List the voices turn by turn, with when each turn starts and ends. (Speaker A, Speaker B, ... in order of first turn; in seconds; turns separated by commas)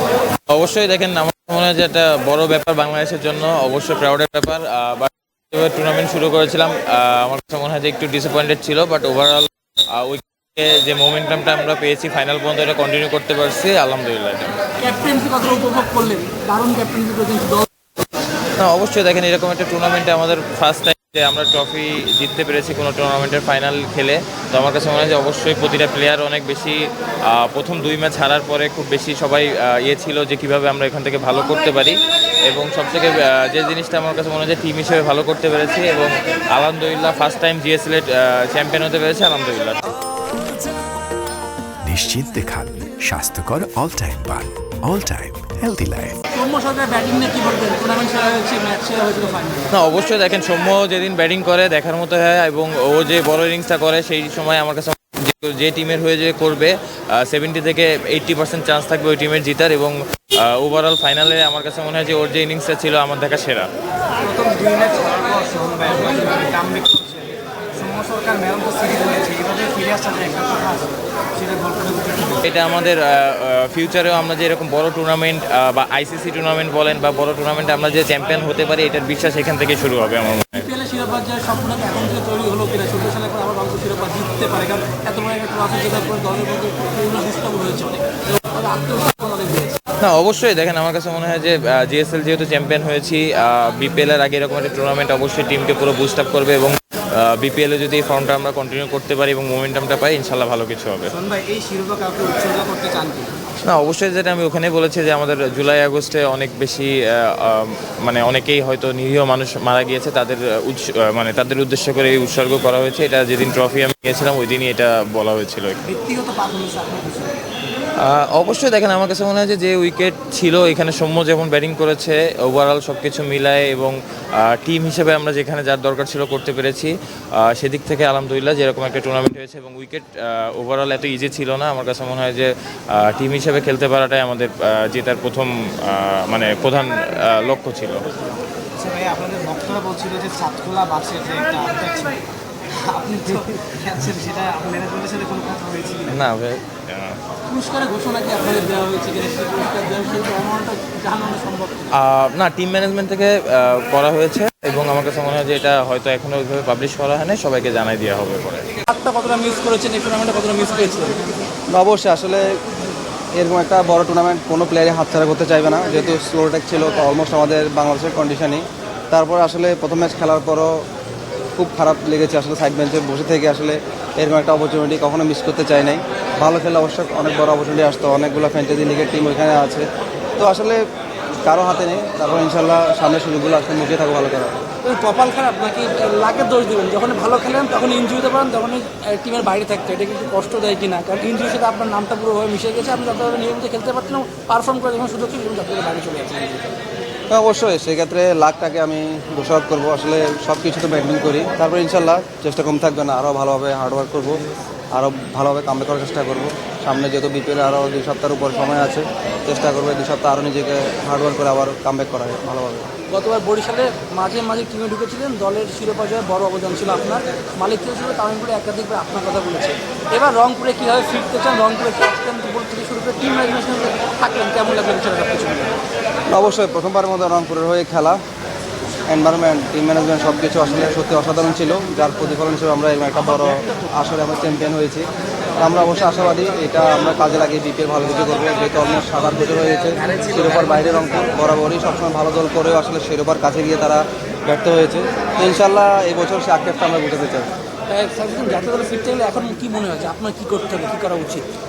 Speaker A: 0.5-14.6, Speaker B: 14.8-17.7, Speaker A: 18.6-26.8, Speaker A: 27.3-31.9, Speaker A: 32.5-39.8, Speaker C: 41.8-46.2, Speaker B: 46.3-49.7, Speaker A: 49.7-63.7, Speaker D: 64.2-67.2, Speaker D: 67.8-72.4, Speaker A: 72.4-80.7, Speaker B: 80.5-89.8, Speaker A: 90.0-101.1, Speaker D: 101.1-103.3, Speaker A: 103.6-115.8, Speaker B: 115.9-117.3, Speaker A: 118.0-138.0, Speaker D: 138.8-142.2, Speaker D: 142.8-146.1, Speaker A: 146.1-147.2, Speaker B: 147.5-151.9, Speaker A: 152.0-158.7, Speaker B: 158.9-161.2, Speaker E: 161.7-162.4, Speaker E: 163.3-170.8, Speaker E: 171.6-179.8, Speaker E: 180.4-180.8, Speaker E: 181.4-184.6, Speaker B: 184.8-196.6, Speaker E: 197.3-204.4, Speaker E: 204.9-212.9, Speaker B: 213.1-225.7, Speaker E: 226.3-228.2, Speaker E: 229.1-235.1, Speaker E: 235.6-247.5, Speaker B: 247.9-251.4